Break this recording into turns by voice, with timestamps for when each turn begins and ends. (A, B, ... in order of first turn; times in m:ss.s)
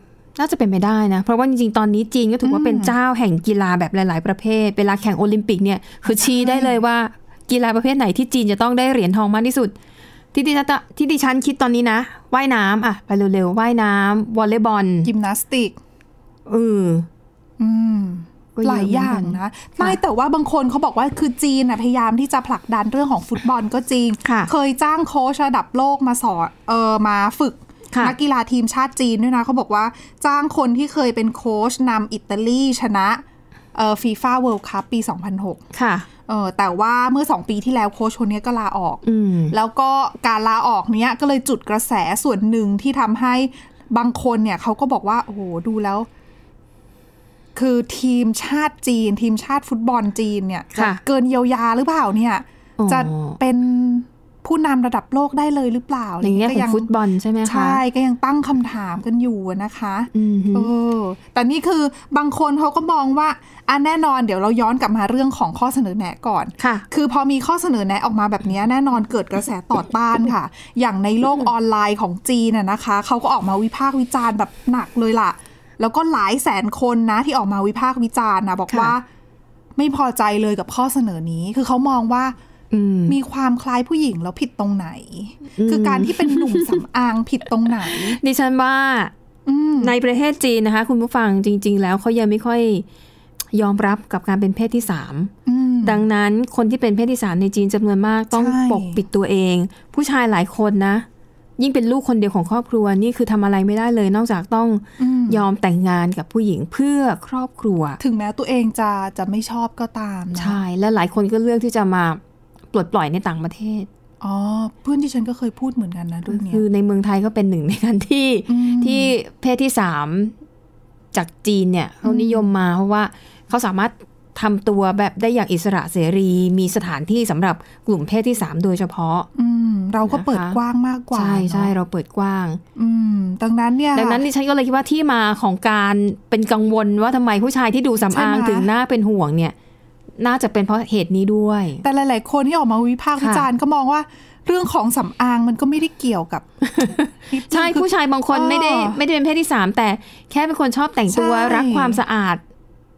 0:00.4-0:09.7 A
0:02.4-0:03.0 B
0:06.0-0:06.8 B
0:10.3-0:15.1 A
0:15.0-0:15.8 B
0:16.5-0:17.1 A
0:17.6-0:33.2 B
0:18.6-0:20.0 A
0:24.2-0:24.5 A
0:33.8-0:35.6 B
0:35.7-0:36.1 A
0:36.3-0:46.1 B
0:39.0-0:39.6 A
0:47.6-0:56.9 B
0:50.8-0:51.0 A
0:52.8-0:53.4 A
0:56.2-0:57.8 A
0:57.4-1:19.0 B
1:00.1-1:00.7 A
1:06.6-1:06.9 A
1:18.7-1:19.0 A
1:19.8-1:22.4 B
1:22.7-1:23.2 A
1:23.1-1:28.2 B
1:25.6-1:26.8 A
1:27.8-1:29.1 A
1:29.5-1:29.9 B
1:29.8-1:32.8 A
1:33.5-1:35.3 A
1:35.5-1:36.0 B
1:35.8-1:41.1 A
1:38.3-1:39.0 B
1:41.6-1:48.0 A
1:45.0-1:45.4 B
1:48.0-1:50.6 B
1:50.4-1:52.2 A
1:52.7-1:53.9 A
1:54.2-1:56.6 B
1:56.3-2:00.3 A
1:58.5-1:59.1 B
2:01.1-2:09.3 A
2:02.0-2:02.5 B
2:09.4-2:11.7 B
2:10.0-2:10.6 A
2:11.1-2:12.6 A
2:12.8-2:14.2 B
2:14.0-2:19.5 A
2:18.1-2:18.7 B
2:20.2-2:21.8 A
2:21.8-2:29.0 B
2:23.2-2:23.5 A
2:26.7-2:32.4 A
2:31.1-2:32.0 B